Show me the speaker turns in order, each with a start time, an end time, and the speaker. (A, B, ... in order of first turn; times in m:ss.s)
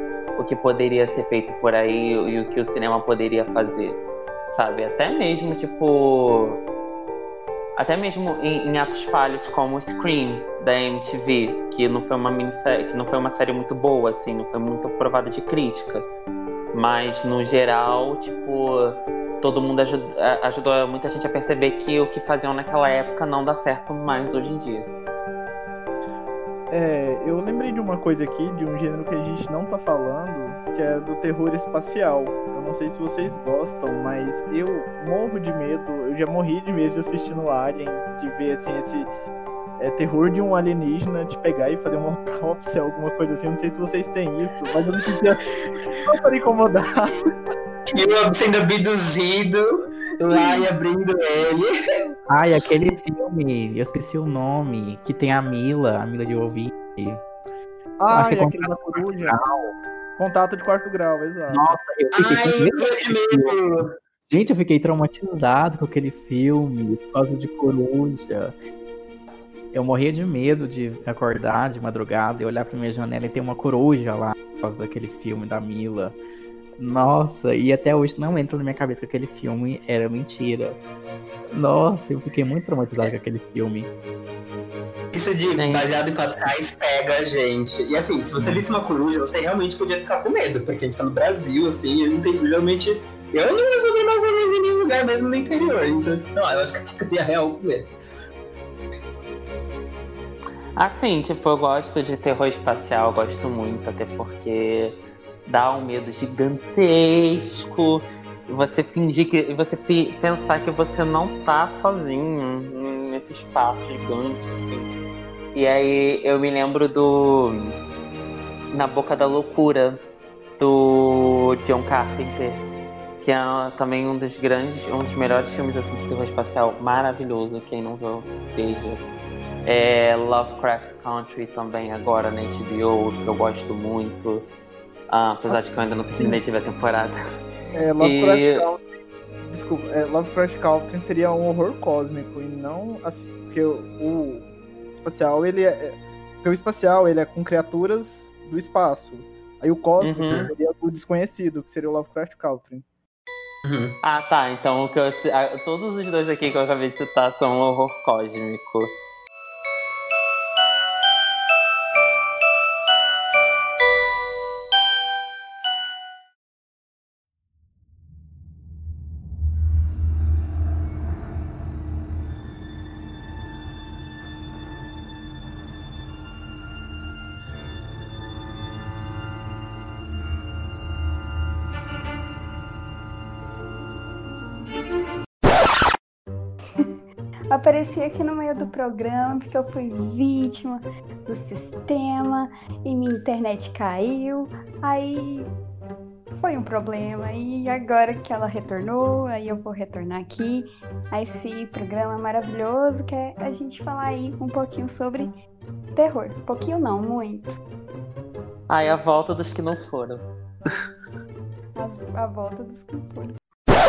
0:00.4-0:06.6 A
0:07.8-0:16.0 A
0:16.7-0:24.9 A
0:26.7-0:39.1 B
0:39.8-0:45.5 B
0:46.0-0:47.2 B
0:47.9-0:52.0 C
0:50.3-0:50.7 B
0:52.3-0:57.2 D
0:58.0-0:59.4 B
0:58.1-0:59.8 D
1:00.2-1:01.7 B
1:01.5-1:03.6 D
1:02.1-1:04.0 C
1:04.3-1:08.5 D
1:09.7-1:16.2 D
1:16.8-1:20.8 D
1:21.5-1:23.9 D
1:25.1-1:38.0 C
1:25.6-1:25.9 A
1:40.8-1:54.9 A
1:55.5-1:57.8 A
1:58.7-2:00.0 A
2:00.6-2:02.6 A
2:03.2-2:09.0 A
2:09.6-2:14.5 A
2:15.1-2:17.2 A
2:17.7-2:18.9 B
2:18.0-2:18.6 A
2:19.4-2:24.5 B
2:25.0-2:32.8 B
2:30.0-2:30.4 A
2:33.6-2:34.0 C
2:34.0-2:39.0 A
3:07.5-3:15.5 E
3:16.4-3:25.3 E
3:25.9-3:27.6 E
3:28.7-3:30.2 A
3:31.8-3:33.4 E